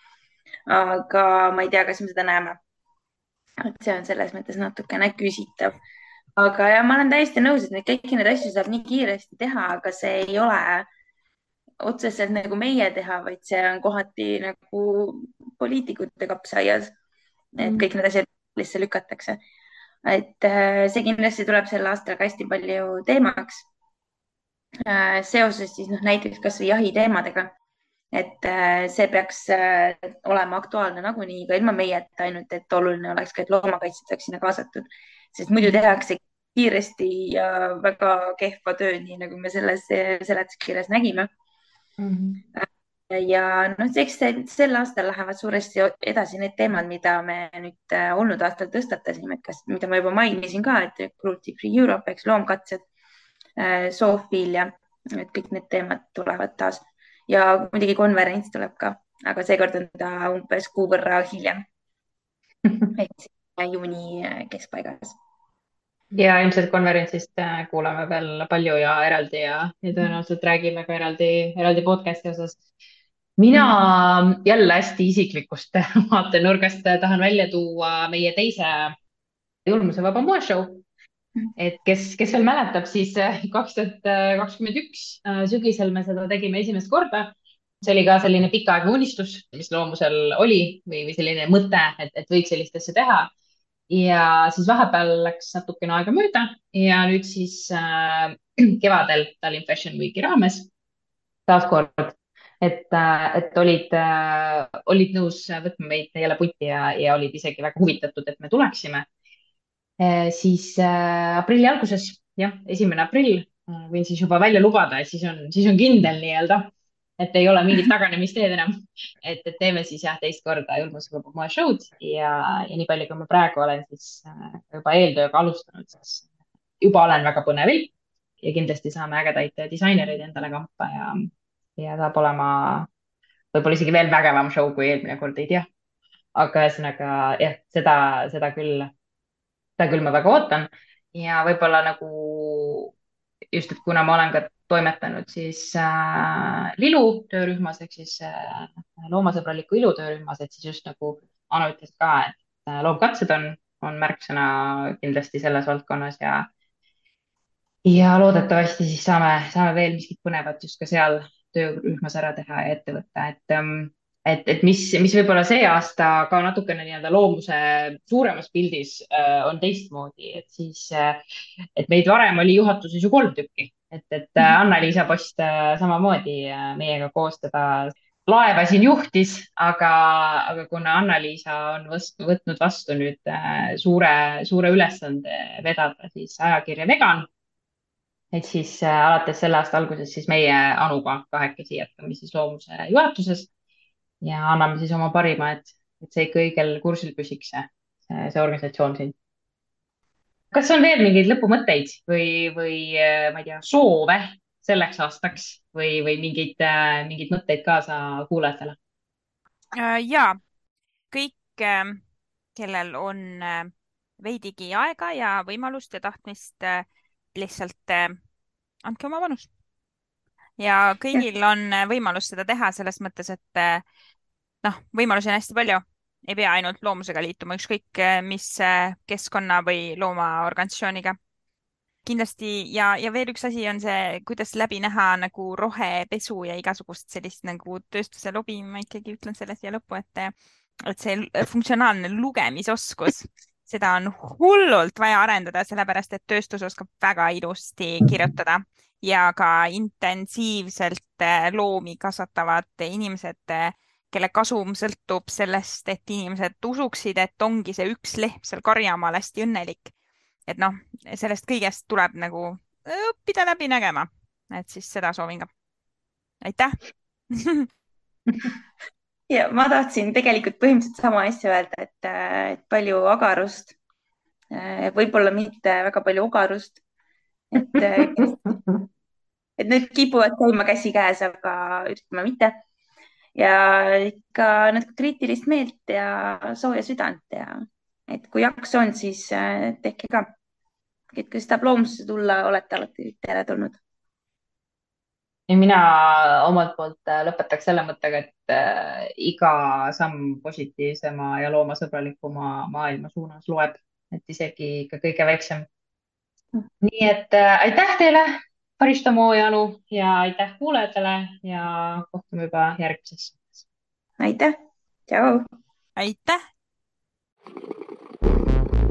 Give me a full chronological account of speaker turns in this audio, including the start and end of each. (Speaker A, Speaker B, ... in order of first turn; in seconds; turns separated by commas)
Speaker A: 0.7-2.6, Speaker A: 3.6-5.7, Speaker A: 6.3-10.9, Speaker A: 11.8-16.9, Speaker A: 17.6-19.4, Speaker B: 17.6-17.9, Speaker A: 20.0-23.7, Speaker A: 24.9-27.5, Speaker A: 28.1-41.3, Speaker B: 42.0-42.4, Speaker A: 42.5-52.8, Speaker A: 53.6-61.6, Speaker A: 62.9-65.2, Speaker B: 66.1-72.6, Speaker B: 73.4-78.9, Speaker B: 79.6-80.8, Speaker B: 81.5-93.3, Speaker B: 93.9-100.7, Speaker B: 101.5-109.1, Speaker B: 110.0-126.3, Speaker B: 126.8-132.9, Speaker B: 133.5-135.7, Speaker B: 136.3-138.9, Speaker B: 139.8-142.9, Speaker B: 143.5-156.5, Speaker B: 157.8-171.2, Speaker B: 171.8-187.3, Speaker B: 188.3-193.5, Speaker B: 194.2-199.1, Speaker B: 200.5-208.8, Speaker C: 209.7-210.4, Speaker C: 211.1-212.0, Speaker C: 212.6-218.2, Speaker C: 218.8-219.5, Speaker C: 220.6-223.8, Speaker C: 224.6-231.2, Speaker C: 232.0-259.9, Speaker C: 260.5-265.5, Speaker C: 266.4-266.8, Speaker C: 267.3-267.7, Speaker A: 269.3-273.8, Speaker A: 274.5-276.8, Speaker A: 277.5-278.6, Speaker B: 277.7-278.8, Speaker A: 279.6-282.6, Speaker A: 283.3-290.3, Speaker A: 291.1-293.8, Speaker B: 295.5-305.7, Speaker B: 306.8-313.6, Speaker A: 314.2-314.5, Speaker A: 315.1-315.4, Speaker C: 315.9-316.4